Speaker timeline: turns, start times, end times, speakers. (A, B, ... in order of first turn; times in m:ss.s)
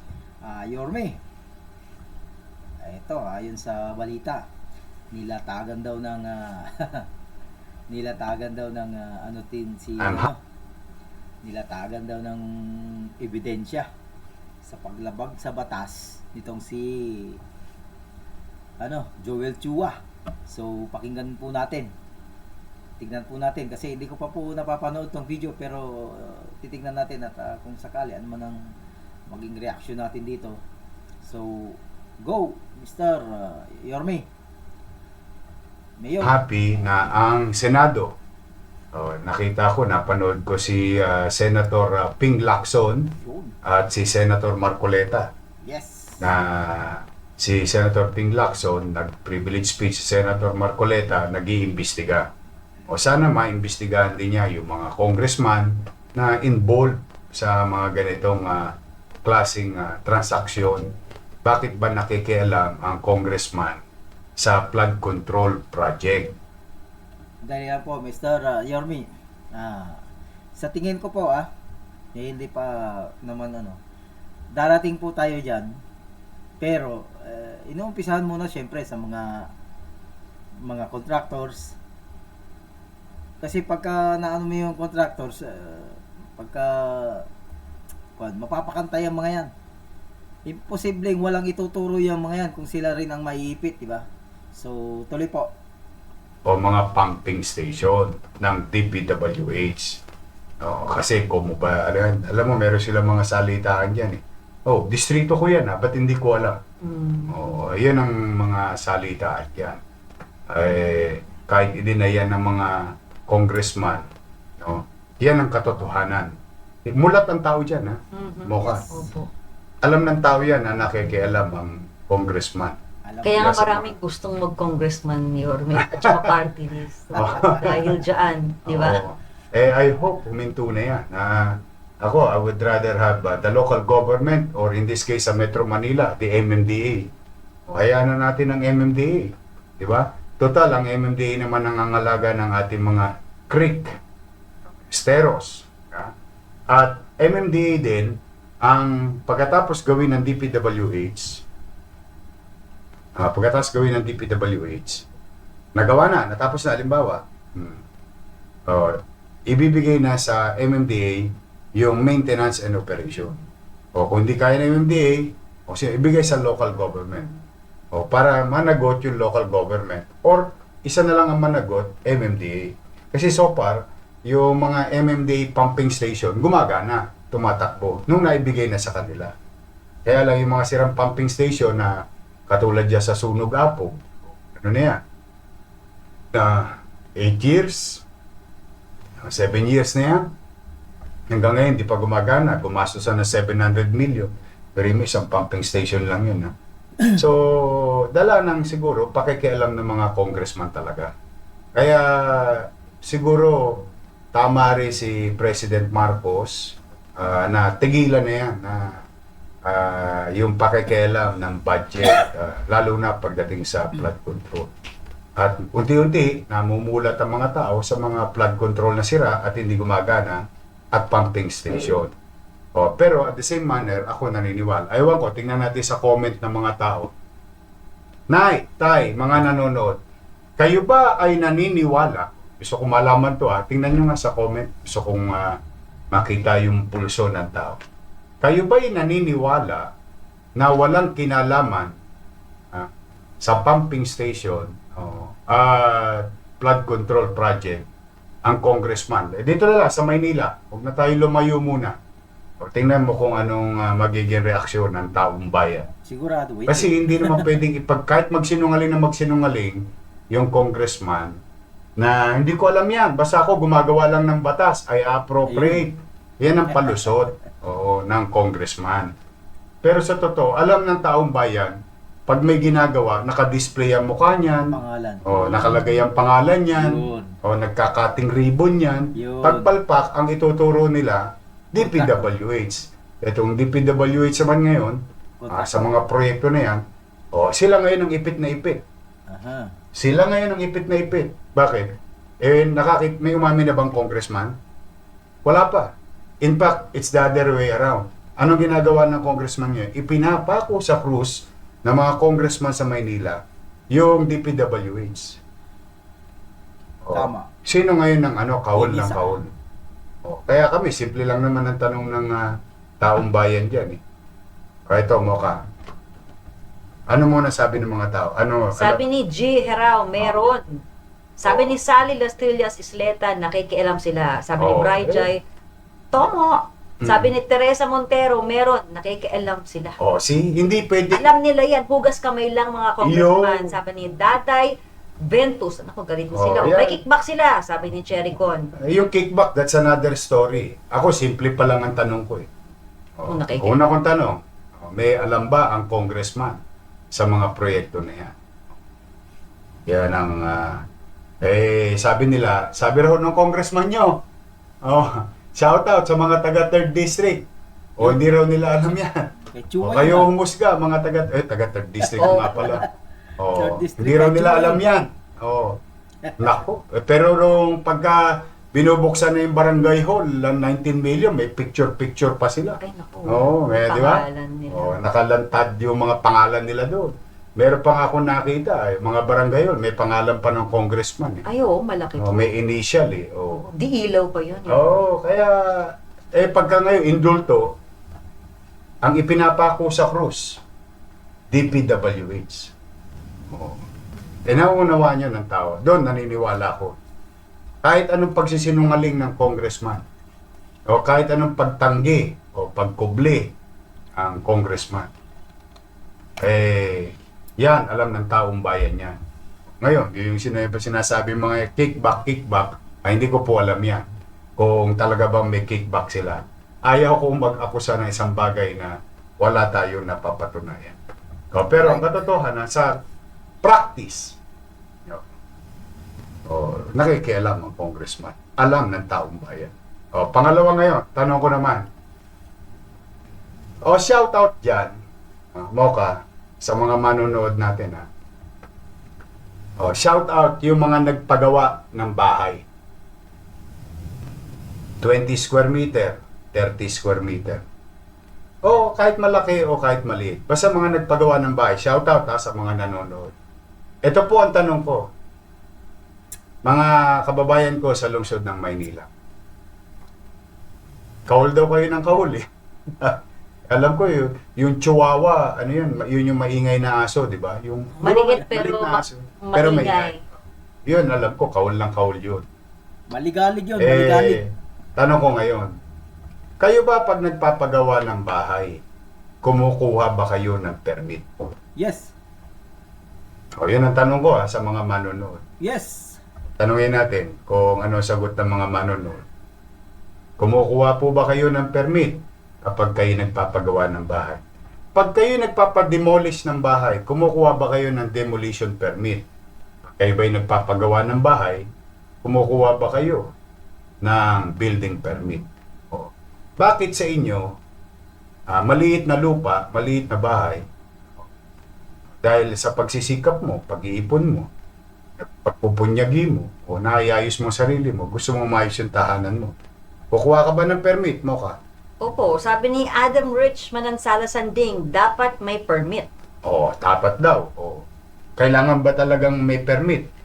0:00.4-0:01.2 A
0:02.8-0:04.4 A
0:05.1-0:07.1 A
0:07.9-0:10.4 A
0:10.0-0:10.3 B
0:11.4-0:13.9 A
0:14.6-0:17.4 A
0:18.8-0:21.9 A
0:23.0-0:28.6 A
0:29.3-0:30.6 A
0:31.2-0:34.3 A
0:36.0-0:36.4 A
0:36.2-0:38.1 B
0:38.9-0:45.3 B
0:43.2-0:43.5 A
0:45.6-0:46.3 A
0:46.2-0:52.3 B
0:52.9-1:03.8 B
1:04.4-1:06.4 B
1:07.4-1:10.0 A
1:10.6-1:11.5 A
1:12.1-1:13.8 A
1:14.5-1:15.8 A
1:16.6-1:19.5 A
1:20.6-1:21.8 A
1:23.4-1:27.2 A
1:28.2-1:29.5 A
1:30.5-1:35.5 A
1:36.4-1:40.0 B
1:40.6-1:46.6 B
1:46.8-1:47.4 C
1:47.3-1:49.8 B
1:50.5-1:54.1 B
1:54.6-1:59.0 B
1:58.1-1:59.3 C
1:59.8-2:02.8 B
2:03.0-2:03.5 A
2:03.2-2:09.0 C
2:03.3-2:03.9 B
2:05.7-2:06.4 B
2:07.1-2:08.0 B
2:08.7-2:17.1 B
2:17.7-2:23.9 B
2:24.9-2:26.1 B
2:26.7-2:31.4 B
2:33.2-2:35.1 B
2:35.7-2:37.8 B
2:38.7-2:43.3 B
2:43.9-2:47.3 B
2:47.9-2:59.3 B
3:00.0-3:05.0 B
3:06.3-3:08.0 B
3:09.2-3:10.3 B
3:11.3-3:16.5 B
3:17.1-3:21.1 B
3:21.7-3:29.0 B
3:29.6-3:34.7 B
3:35.4-3:42.1 B
3:42.7-3:47.1 B
3:48.3-3:50.0 B
3:50.6-3:55.6 B
3:56.1-3:57.8 B
3:58.4-3:59.9 B
4:00.6-4:02.0 B
4:02.7-4:07.9 B
4:08.4-4:12.0 B
4:12.6-4:15.9 B
4:16.0-4:17.6 A
4:16.7-4:21.4 B
4:22.0-4:29.1 B
4:25.5-4:25.9 A
4:26.7-4:27.1 A
4:29.8-4:48.8 B
4:34.7-4:35.8 A
4:35.6-4:35.9 C
4:36.7-4:37.4 A
4:39.2-4:39.7 A
4:41.8-4:42.2 A
4:45.4-4:45.9 A
4:49.3-4:49.7 A
4:49.9-4:54.6 B
4:55.4-5:05.4 B
5:07.0-5:09.5 B
5:07.1-5:07.5 A
5:08.7-5:09.4 A
5:10.2-5:14.0 B
5:14.9-5:15.6 B
5:17.1-5:19.0 B
5:18.7-5:20.8 C
5:21.4-5:25.4 C
5:21.4-5:21.7 B
5:24.6-5:25.3 B
5:26.1-5:30.0 C
5:27.0-5:27.3 B
5:30.0-5:31.3 B
5:31.1-5:38.7 C
5:33.0-5:33.8 B
5:36.3-5:37.0 B
5:38.8-5:42.5 B
5:43.2-5:46.6 B
5:43.3-5:43.8 C
5:47.1-5:48.4 B
5:49.9-5:50.8 B
5:51.4-5:54.2 B
5:54.8-5:57.5 B
5:58.0-5:59.3 B
5:59.5-6:00.3 A
5:59.8-6:02.9 B
6:02.2-6:02.8 C
6:03.4-6:05.8 B
6:03.5-6:04.8 A
6:06.4-6:21.4 B
6:12.8-6:15.0 C
6:21.4-6:22.5 C
6:22.2-6:23.7 B
6:23.7-6:25.0 C
6:24.7-6:27.8 B
6:29.0-6:30.6 B
6:31.5-6:32.7 B
6:33.5-6:33.8 B
6:34.4-6:37.0 B
6:37.8-6:40.0 B
6:40.9-6:43.5 B
6:44.2-6:45.1 B
6:46.4-6:49.2 B
6:49.8-6:54.0 B
6:54.6-7:01.0 B
7:01.5-7:03.0 B
7:01.8-7:02.1 A
7:03.6-7:04.4 B
7:06.5-7:11.9 B
7:13.8-7:14.9 B
7:15.5-7:18.1 B
7:19.8-7:22.6 B
7:25.0-7:27.6 B
7:28.6-7:33.3 B
7:34.0-7:35.1 B
7:36.6-7:39.1 B
7:41.3-7:42.4 B
7:43.0-7:50.1 B
7:48.0-7:50.2 C
7:50.8-7:52.5 B
7:53.1-7:54.4 A
7:53.8-7:55.7 B
7:56.6-7:58.8 B
7:59.4-8:01.5 B
8:01.8-8:02.1 A
8:03.6-8:05.4 B
8:05.6-8:06.2 A
8:06.6-8:09.2 B
8:10.4-8:14.4 B
8:14.9-8:19.2 B
8:20.0-8:21.7 B
8:22.2-8:23.3 B
8:24.0-8:27.6 B
8:28.5-8:30.6 B
8:32.2-8:34.5 B
8:35.2-8:39.5 B
8:40.1-8:41.6 B
8:42.0-8:46.1 C
8:46.4-8:47.8 B
8:48.4-8:50.1 B